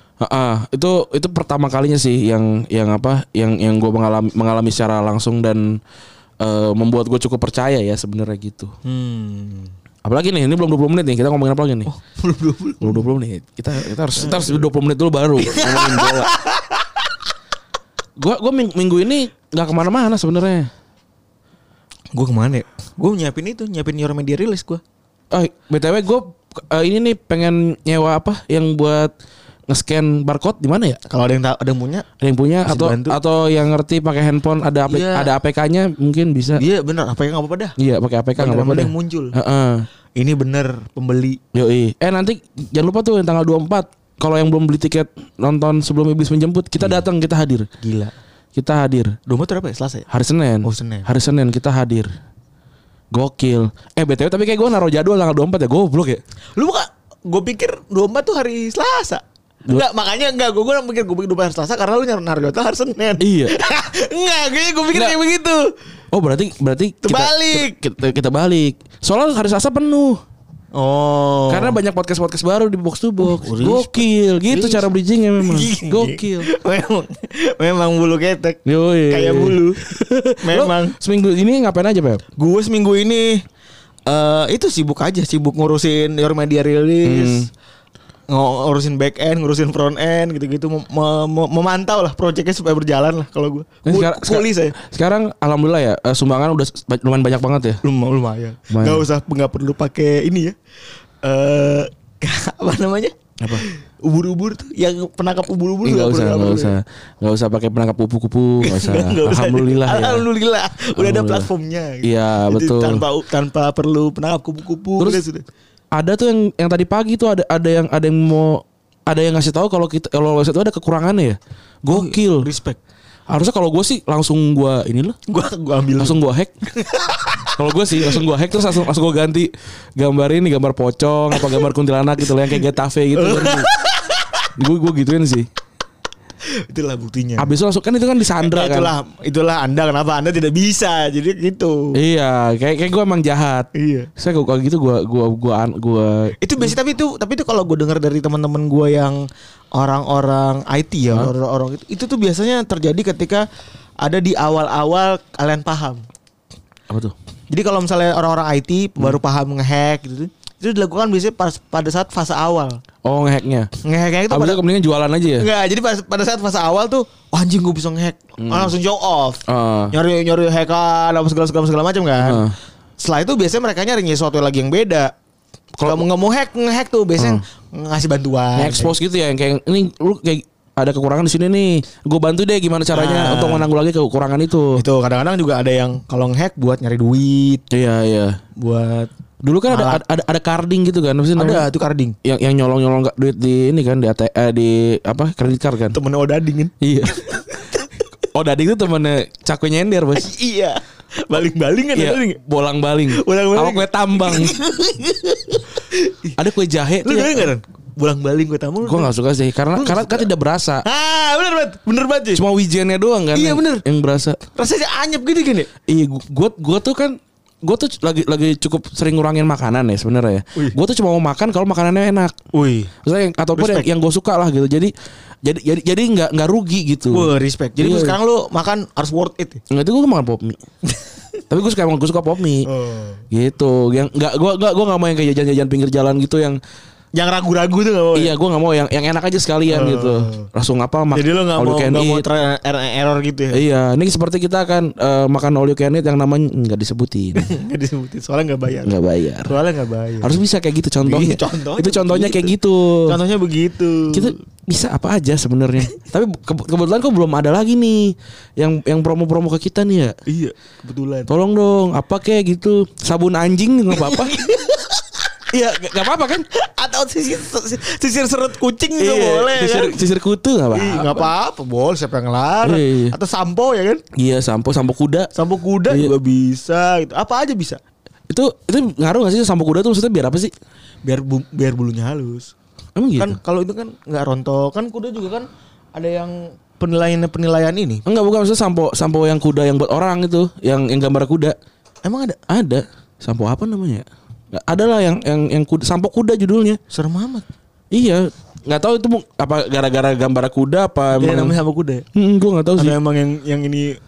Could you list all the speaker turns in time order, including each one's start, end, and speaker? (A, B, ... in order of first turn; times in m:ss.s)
0:00.2-0:05.8 A
0:06.4-0:08.7 A
0:08.8-0:09.7 B
0:10.0-0:11.9 A
0:11.9-0:13.1 B
0:12.8-0:16.3 A
0:14.2-0:14.6 B
0:15.4-0:16.8 B
0:18.2-0:20.7 A
0:22.1-0:24.8 B
0:25.3-0:29.1 A
0:29.7-0:31.0 A
0:31.1-0:32.1 B
0:32.2-0:36.6 A
0:32.7-0:33.2 B
0:34.9-0:35.3 B
0:36.6-0:37.8 B
0:37.8-0:39.9 A
0:38.4-0:39.4 B
0:40.2-0:41.4 B
0:41.5-0:47.7 A
0:47.8-0:48.1 B
0:48.6-0:49.2 A
0:49.3-0:50.1 B
0:50.1-0:52.1 A
0:50.6-0:51.1 B
0:53.1-0:56.2 A
0:56.6-1:05.7 B
1:03.2-1:03.6 A
1:06.1-1:10.2 A
1:07.0-1:07.8 B
1:10.7-1:11.8 B
1:11.5-1:16.5 A
1:13.2-1:14.8 B
1:15.4-1:19.8 B
1:18.7-1:22.2 A
1:20.4-1:21.0 B
1:22.4-1:23.4 B
1:24.1-1:27.5 B
1:27.0-1:27.5 A
1:28.3-1:34.8 B
1:33.9-1:37.8 A
1:37.8-1:40.6 B
1:38.7-1:39.0 A
1:41.2-1:46.8 B
1:45.8-1:50.3 A
1:48.6-1:55.5 B
1:51.0-1:51.5 A
1:52.0-1:53.0 A
1:55.9-2:02.5 A
2:01.9-2:02.8 B
2:03.3-2:05.2 A
2:05.3-2:08.2 B
2:06.0-2:06.5 A
2:07.6-2:13.7 A
2:13.2-2:14.3 B
2:14.6-2:15.5 A
2:16.7-2:17.5 B
2:17.4-2:18.9 A
2:18.4-2:22.0 B
2:22.0-2:26.8 A
2:23.8-2:24.1 B
2:26.4-2:29.2 B
2:29.7-2:33.4 B
2:34.0-2:36.1 B
2:36.9-2:37.2 A
2:37.5-2:42.8 B
2:43.0-2:43.7 A
2:43.8-2:44.6 B
2:44.3-2:45.5 A
2:45.4-2:52.5 B
2:48.4-2:48.7 A
2:49.5-2:49.9 A
2:52.2-2:52.5 A
2:53.0-2:55.1 B
2:55.8-2:56.0 A
2:55.8-2:58.9 B
2:57.2-2:57.4 A
2:58.6-3:04.8 A
3:02.9-3:03.7 B
3:04.8-3:07.6 B
3:07.7-3:08.4 A
3:08.6-3:09.1 B
3:09.4-3:11.7 A
3:09.7-3:10.0 B
3:11.4-3:12.2 B
3:12.2-3:16.0 A
3:15.9-3:16.8 B
3:16.8-3:17.4 A
3:18.3-3:20.3 A
3:20.2-3:22.4 B
3:22.0-3:24.6 A
3:23.1-3:26.4 B
3:26.4-3:27.5 A
3:27.0-3:29.1 B
3:28.8-3:30.8 A
3:29.8-3:30.3 B
3:30.8-3:32.4 B
3:32.3-3:34.4 A
3:33.3-3:33.8 B
3:34.6-3:35.7 B
3:35.9-3:42.4 A
3:42.5-3:42.9 B
3:43.0-3:44.9 A
3:43.6-3:43.9 B
3:45.4-3:48.2 A
3:47.1-3:49.6 B
3:49.7-3:50.6 A
3:51.5-3:52.7 A
3:52.7-3:53.2 B
3:53.3-3:56.6 A
3:57.2-3:58.3 B
3:58.2-4:02.2 A
3:59.7-4:00.5 B
4:01.1-4:03.6 B
4:03.5-4:07.5 A
4:07.4-4:10.4 B
4:08.8-4:09.6 A
4:10.2-4:13.2 A
4:11.0-4:12.6 B
4:13.1-4:14.3 B
4:14.1-4:20.2 A
4:20.3-4:21.3 B
4:21.3-4:24.4 A
4:23.9-4:25.1 B
4:25.5-4:26.4 A
4:26.5-4:30.0 B
4:29.0-4:31.3 A
4:30.7-4:34.0 B
4:32.6-4:33.1 A
4:34.2-4:35.3 A
4:35.4-4:37.8 B
4:35.9-4:36.1 A
4:38.3-4:40.5 A
4:41.0-4:42.5 B
4:43.0-4:43.4 A
4:43.2-4:48.0 B
4:48.1-4:51.6 A
4:52.0-4:52.4 B
4:52.5-4:56.8 A
4:56.9-4:57.4 B
4:57.9-5:01.6 A
5:01.2-5:02.0 B
5:02.2-5:03.0 A
5:02.8-5:04.0 B